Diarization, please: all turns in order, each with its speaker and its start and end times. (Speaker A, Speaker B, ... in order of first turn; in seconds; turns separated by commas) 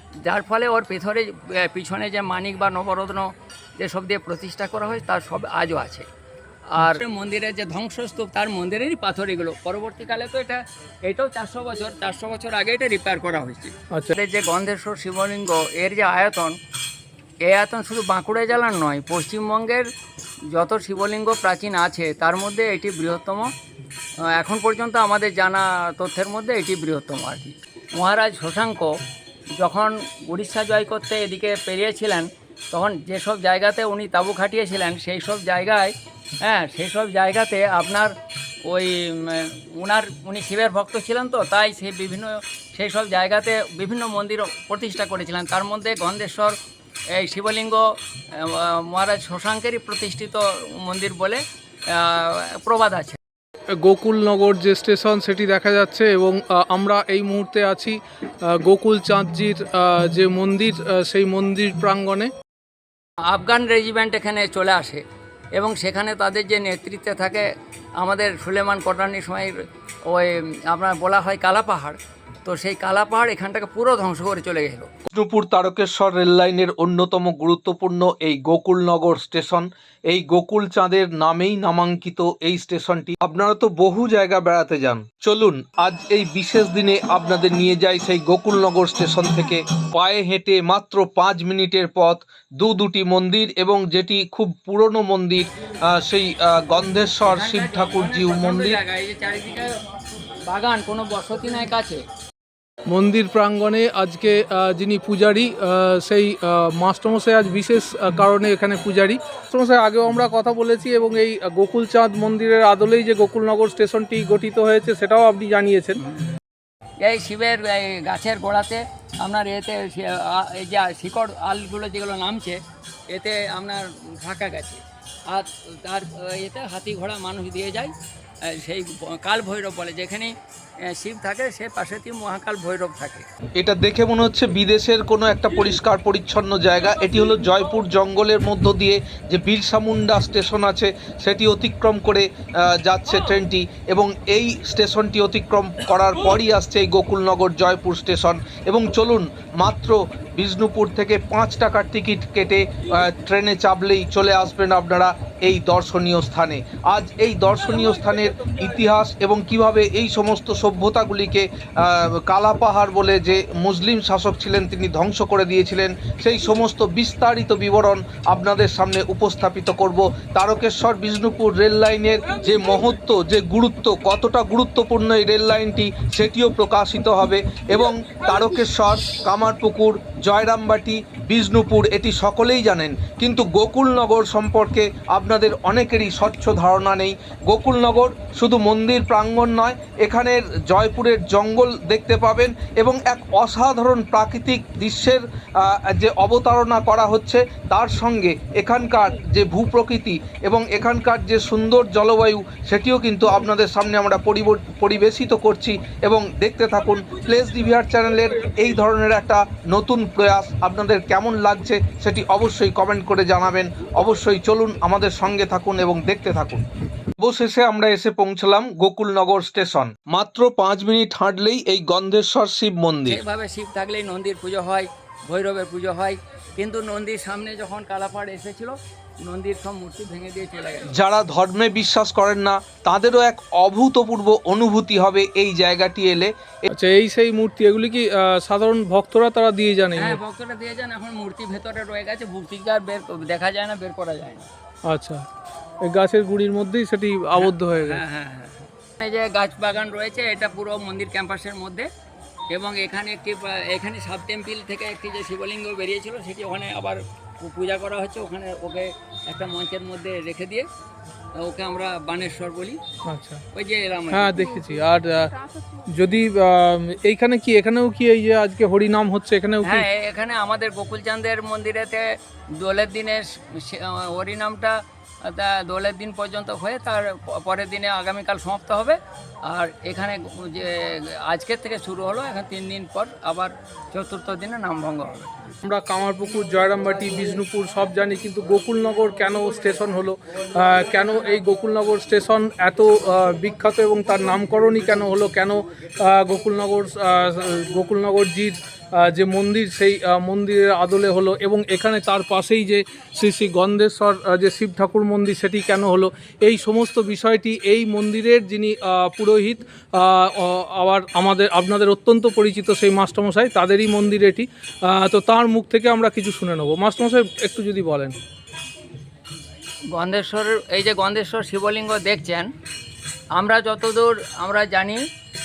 Speaker A: 0.2-6.0, Speaker A: 6.7-16.5, Speaker A: 17.4-19.9, Speaker A: 20.5-23.5, Speaker A: 24.2-28.9, Speaker A: 29.6-38.1, Speaker A: 38.6-46.5, Speaker A: 47.1-53.2, Speaker B: 53.8-62.3, Speaker A: 63.3-65.0, Speaker A: 65.5-67.5, Speaker A: 68.0-74.9, Speaker C: 75.1-98.8, Speaker A: 97.2-99.8, Speaker A: 100.4-102.0, Speaker B: 102.9-116.0, Speaker A: 117.0-127.9, Speaker A: 128.4-133.2, Speaker C: 133.6-216.6, Speaker C: 217.2-223.2, Speaker A: 223.1-230.9, Speaker C: 230.9-236.7, Speaker B: 236.7-240.2, Speaker A: 239.9-244.5, Speaker B: 244.9-245.2, Speaker B: 245.8-248.0, Speaker A: 247.4-251.9, Speaker A: 252.5-260.7, Speaker A: 261.4-262.8, Speaker B: 263.0-263.4, Speaker A: 263.5-264.5, Speaker B: 264.1-269.9, Speaker A: 269.6-285.4, Speaker B: 285.6-318.1, Speaker A: 319.9-322.5, Speaker A: 323.3-325.0